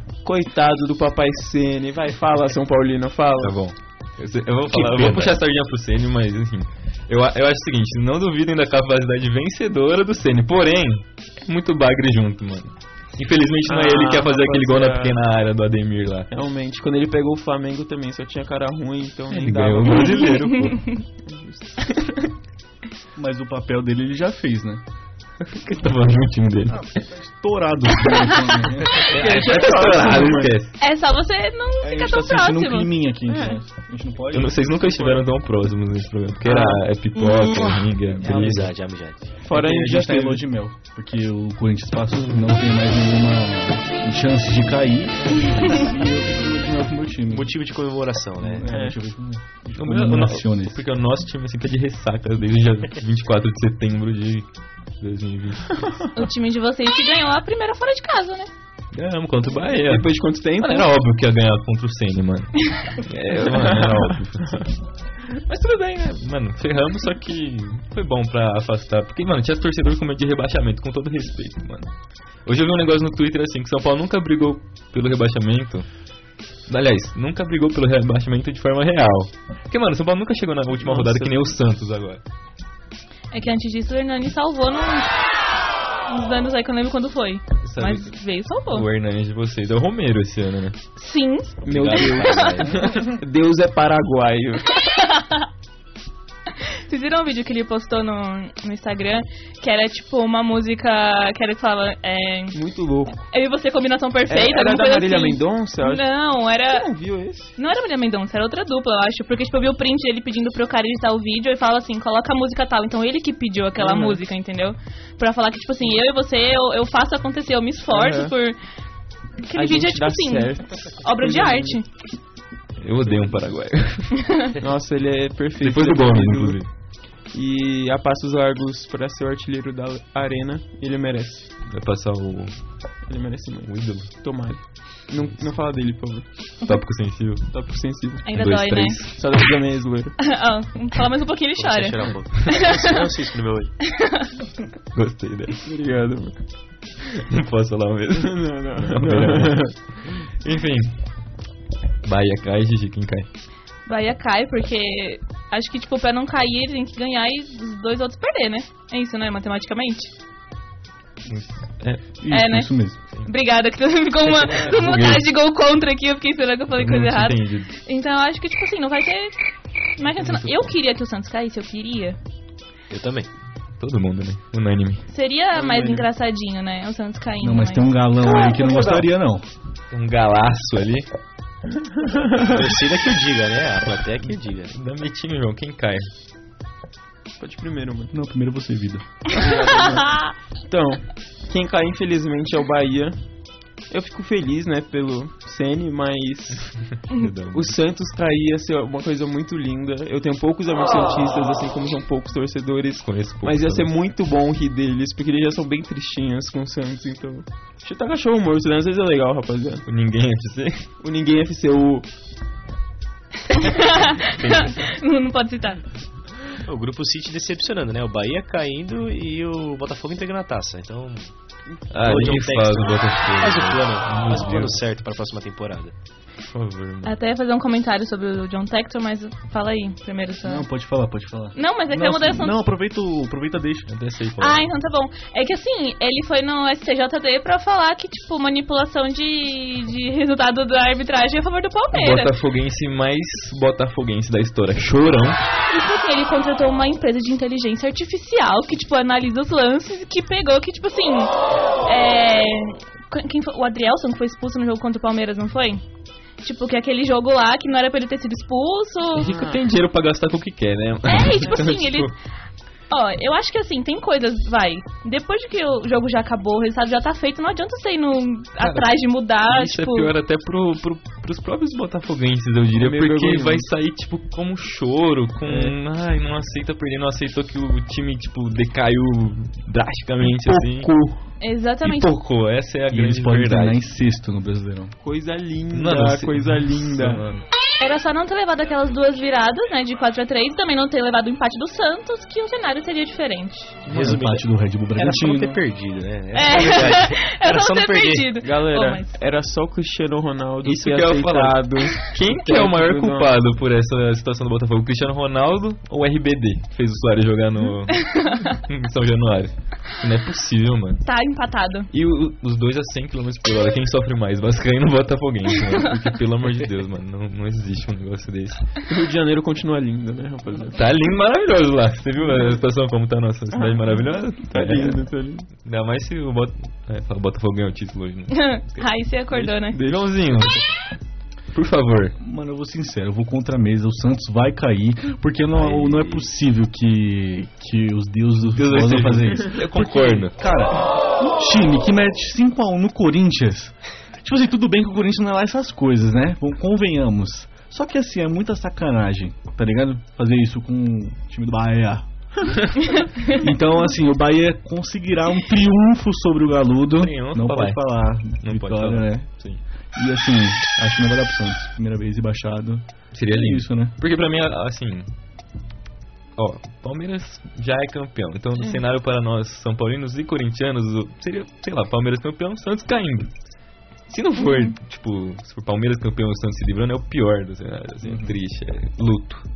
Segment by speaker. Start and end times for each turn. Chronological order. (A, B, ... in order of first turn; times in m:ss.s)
0:00.2-0:03.5 A
0:03.4-0:16.3 B
0:04.9-0:05.3 C
0:13.6-0:15.2 A
0:16.3-0:20.4 A
0:19.3-0:20.8 B
0:21.2-0:22.3 A
0:23.2-0:24.8 D
0:25.4-0:26.8 B
0:26.7-0:29.1 D
0:29.0-0:30.5 A
0:29.1-0:30.7 B
0:30.8-0:32.9 E
0:31.8-0:35.2 D
0:34.3-0:38.7 B
0:38.2-0:39.3 C
0:39.4-0:40.4 A
0:39.5-0:47.5 D
0:47.3-0:48.7 C
0:48.4-0:50.8 D
0:48.7-0:49.0 A
0:49.8-0:54.4 B
0:55.0-0:56.0 B
0:56.1-0:58.5 E
0:58.9-1:04.7 B
0:59.8-1:00.9 A
1:03.4-1:04.6 A
1:05.4-1:11.9 B
1:12.4-1:15.9 B
1:16.7-1:22.2 B
1:20.8-1:21.6 A
1:23.3-1:25.1 E
1:26.1-1:28.8 E
1:27.6-1:30.8 B
1:31.0-1:32.6 E
1:31.6-1:32.7 B
1:31.6-1:34.6 A
1:34.8-1:35.4 E
1:36.9-1:42.6 E
1:42.5-1:43.2 A
1:43.3-1:46.9 E
1:44.3-1:46.0 A
1:46.7-1:47.5 A
1:47.6-1:58.6 E
1:53.8-1:54.2 A
1:57.9-1:58.3 A
1:59.4-2:01.9 E
1:59.5-2:01.8 A
2:02.8-2:04.2 B
2:04.6-2:06.6 A
2:05.6-2:06.7 B
2:07.3-2:11.5 A
2:11.7-2:12.5 B
2:13.1-2:16.2 A
2:13.6-2:14.1 B
2:15.1-2:15.4 B
2:16.6-2:17.5 B
2:17.5-2:18.2 A
2:18.2-2:19.0 E
2:18.3-2:19.2 B
2:19.2-2:20.2 A
2:20.2-2:22.8 E
2:21.6-2:23.7 C
2:23.9-2:24.3 E
2:24.9-2:25.6 B
2:25.6-2:26.4 A
2:27.3-2:30.9 B
2:28.1-2:29.8 A
2:32.0-2:33.2 B
2:33.8-2:40.1 E
2:41.3-2:42.0 B
2:42.2-2:43.0 D
2:42.3-2:49.3 E
2:44.5-2:45.2 B
2:46.7-2:47.7 B
2:50.0-2:52.2 E
2:50.2-2:50.6 B
2:52.9-2:53.3 C
2:53.8-2:55.0 B
2:55.1-2:58.9 E
2:55.5-2:56.1 A
2:57.4-2:59.4 D
2:59.9-3:01.1 B
3:02.0-3:02.6 A
3:02.4-3:04.7 C
3:04.7-3:06.1 B
3:07.4-3:08.1 A
3:08.1-3:09.0 D
3:09.3-3:13.2 A
3:13.9-3:16.7 A
3:17.1-3:17.8 B
3:17.5-3:29.8 A
3:23.0-3:23.9 B
3:29.8-3:30.9 B
3:31.0-3:32.1 A
3:33.5-3:35.8 E
3:34.4-3:34.7 B
3:36.6-3:41.3 C
3:41.9-3:44.8 B
3:42.0-3:45.9 C
3:46.4-3:47.1 B
3:47.0-3:50.7 E
3:50.4-3:53.9 D
3:51.5-3:52.6 E
3:53.9-3:54.7 B
3:54.4-4:02.3 E
4:01.9-4:05.4 B
4:05.7-4:11.3 E
4:11.8-4:15.8 E
4:16.4-4:19.3 E
4:19.2-4:22.1 B
4:19.2-4:19.6 A
4:21.1-4:22.1 E
4:22.9-4:30.1 E
4:28.6-4:28.9 B
4:29.5-4:40.9 B
4:32.7-4:33.7 A
4:35.4-4:35.8 A
4:40.2-4:41.2 D
4:41.4-4:42.1 E
4:41.8-4:43.8 B
4:42.9-4:44.9 D
4:45.0-4:47.2 A
4:45.7-4:47.2 B
4:47.1-4:47.4 D
4:47.8-4:53.8 E
4:53.8-4:58.4 C
4:53.9-4:55.6 D
4:56.3-4:59.2 E
4:58.4-5:03.3 A
5:00.6-5:11.0 B
5:08.0-5:08.5 E
5:11.0-5:11.9 E
5:11.9-5:18.7 B
5:18.9-5:20.8 A
5:20.7-5:25.0 B
5:23.5-5:25.5 A
5:25.6-5:28.9 B
5:28.3-5:29.8 E
5:29.4-5:30.3 A
5:29.8-5:30.6 B
5:31.5-5:32.2 B
5:32.2-5:52.0 D
5:35.5-5:36.3 C
5:38.5-5:40.4 B
5:53.3-5:59.3 D
5:57.0-5:59.6 B
6:00.0-6:03.9 D
6:03.1-6:05.1 B
6:06.4-6:13.3 B
6:14.1-6:19.4 B
6:14.4-6:14.7 E
6:18.0-6:18.3 D